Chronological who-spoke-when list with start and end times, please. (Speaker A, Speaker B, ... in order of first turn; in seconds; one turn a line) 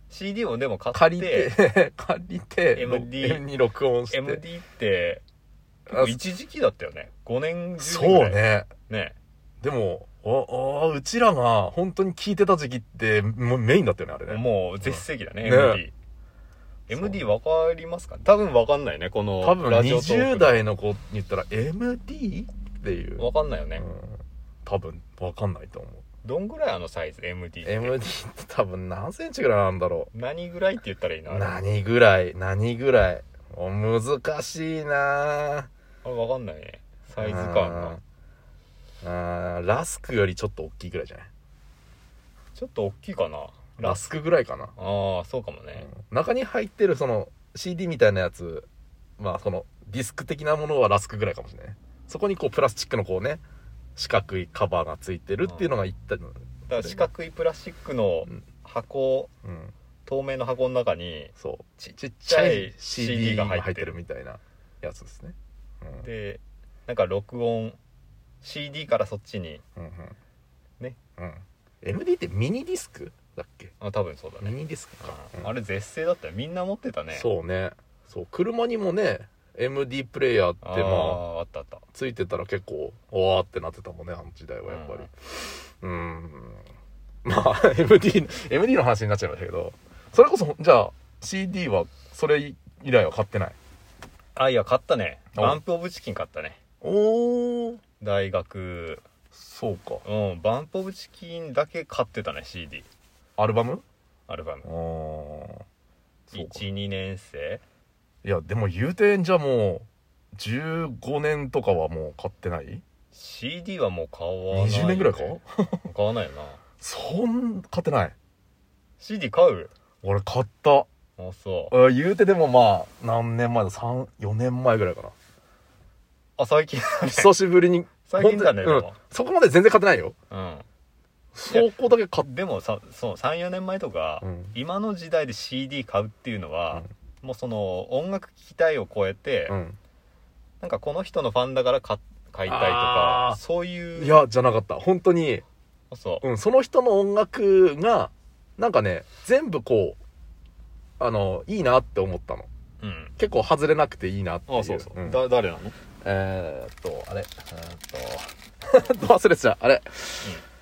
Speaker A: 0.1-1.6
Speaker B: 0.9-4.4
Speaker A: 2.7-3.4
Speaker A: 4.1-5.2
Speaker B: 5.9-6.2
Speaker A: 5.9-9.2
Speaker B: 7.8-8.7
Speaker B: 9.6-15.8
Speaker A: 14.3-15.9
Speaker A: 16.9-20.7
Speaker B: 16.9-17.2
Speaker B: 19.4-26.0
Speaker A: 23.2-23.8
Speaker A: 26.2-28.0
Speaker B: 27.6-30.1
Speaker A: 30.1-31.6
Speaker B: 31.3-35.7
Speaker A: 36.0-38.0
Speaker B: 37.2-38.0
Speaker B: 39.0-41.3
Speaker A: 42.5-44.1
Speaker B: 43.8-44.7
Speaker A: 44.8-45.9
Speaker B: 45.8-48.7
Speaker B: 49.2-53.4
Speaker B: 54.0-57.1
Speaker A: 55.4-55.7
Speaker A: 56.7-59.3
Speaker B: 59.4-59.7
Speaker A: 60.0-64.0
Speaker B: 61.4-66.1
Speaker A: 66.0-67.8
Speaker A: 68.4-69.6
Speaker B: 69.8-70.2
Speaker B: 71.2-73.7
Speaker A: 73.8-77.3
Speaker B: 74.4-75.5
Speaker B: 77.1-81.2
Speaker A: 80.6-81.8
Speaker B: 81.9-86.6
Speaker A: 84.7-85.1
Speaker B: 87.2-93.5
Speaker A: 94.3-96.6
Speaker B: 96.8-97.8
Speaker A: 98.0-99.0
Speaker B: 99.3-100.0
Speaker A: 100.0-102.9
Speaker B: 103.4-103.8
Speaker A: 104.3-104.7
Speaker B: 104.6-105.6
Speaker B: 106.3-106.7
Speaker A: 106.3-107.6
Speaker B: 108.2-112.8
Speaker A: 113.1-116.6
Speaker B: 114.5-115.9
Speaker B: 116.8-118.1
Speaker A: 119.0-119.7
Speaker B: 120.0-120.9
Speaker A: 121.2-121.7
Speaker B: 121.7-125.1
Speaker A: 126.4-127.3
Speaker B: 127.1-130.2
Speaker A: 128.0-129.0
Speaker A: 130.3-130.7
Speaker B: 131.3-132.3
Speaker A: 131.5-139.6
Speaker B: 134.2-134.6
Speaker B: 139.5-139.8
Speaker A: 140.6-144.2
Speaker B: 142.4-143.4
Speaker B: 144.0-145.4
Speaker A: 145.9-146.2
Speaker B: 146.2-150.0
Speaker B: 151.0-152.5
Speaker A: 152.8-153.1
Speaker B: 153.2-155.2
Speaker A: 154.5-155.8
Speaker B: 156.0-160.4